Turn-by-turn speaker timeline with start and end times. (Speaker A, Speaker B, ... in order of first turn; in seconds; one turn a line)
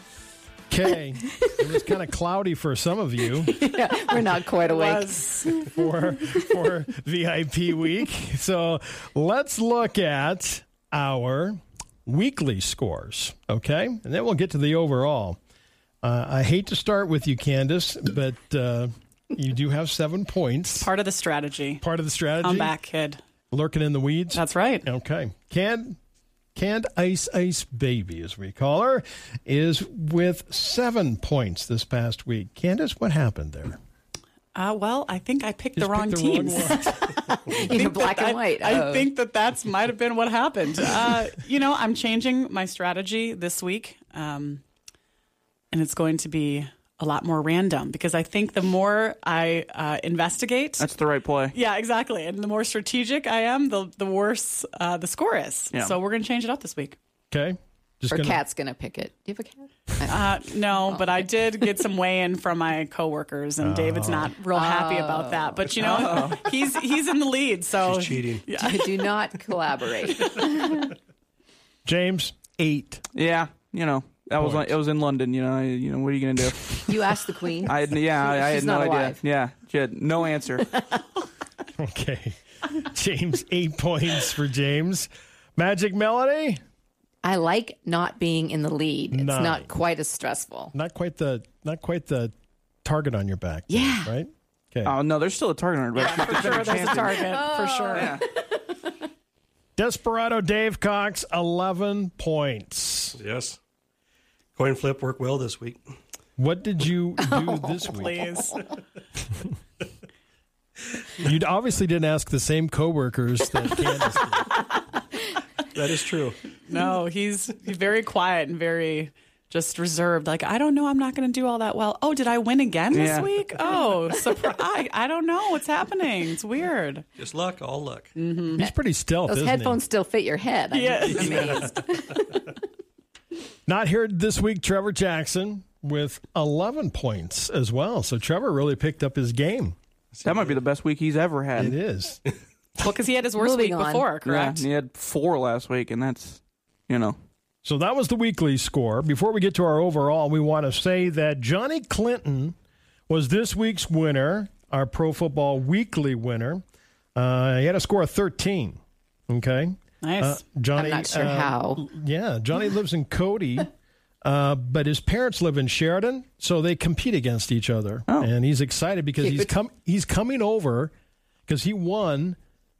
Speaker A: 0.7-3.6
Speaker B: 3.5-5.8
Speaker C: 4.7-5.6
Speaker A: 5.5-15.4
Speaker A: 16.0-20.9
Speaker C: 20.8-21.8
Speaker A: 21.8-22.7
Speaker C: 22.4-23.2
Speaker A: 23.5-26.0
Speaker C: 24.3-24.9
Speaker A: 26.6-33.8
Speaker C: 34.5-44.6
Speaker A: 35.8-37.0
Speaker B: 37.5-39.1
Speaker C: 45.7-50.9
Speaker D: 50.8-51.5
Speaker C: 51.5-57.0
Speaker A: 57.3-58.4
Speaker B: 58.1-61.2
Speaker C: 60.1-69.1
Speaker A: 63.6-64.3
Speaker B: 64.5-65.7
Speaker D: 65.8-66.4
Speaker E: 67.8-68.4
Speaker B: 68.6-70.9
Speaker A: 71.8-73.0
Speaker D: 73.1-77.0
Speaker A: 74.4-74.8
Speaker B: 76.9-79.2
Speaker D: 77.6-80.7
Speaker B: 80.7-81.0
Speaker A: 81.8-86.6
Speaker B: 87.2-90.7
Speaker A: 89.1-89.7
Speaker A: 90.7-95.0
Speaker B: 93.7-94.1
Speaker D: 94.8-97.3
Speaker C: 96.0-98.2
Speaker B: 96.1-99.0
Speaker D: 97.9-98.2
Speaker A: 99.8-103.2
Speaker E: 103.1-103.6
Speaker E: 104.5-105.8
Speaker A: 106.4-108.3
Speaker B: 107.2-108.6
Speaker C: 107.9-108.6
Speaker A: 111.2-114.4
Speaker E: 115.7-116.4
Speaker C: 116.7-127.0
Speaker D: 122.9-123.3
Speaker E: 127.2-128.1
Speaker C: 128.2-128.6
Speaker A: 128.6-129.8
Speaker B: 129.3-132.4
Speaker C: 130.7-131.8
Speaker D: 131.1-131.6
Speaker E: 131.4-131.7
Speaker A: 133.7-139.7
Speaker E: 140.1-140.6
Speaker D: 140.2-141.8
Speaker A: 141.6-142.2
Speaker C: 142.8-144.7
Speaker B: 143.4-144.1
Speaker D: 144.2-147.2
Speaker A: 147.6-152.5
Speaker A: 153.1-156.6
Speaker A: 157.2-163.7
Speaker C: 160.0-160.4
Speaker B: 160.8-161.8
Speaker A: 164.2-170.9
Speaker B: 169.2-169.5
Speaker A: 171.5-172.4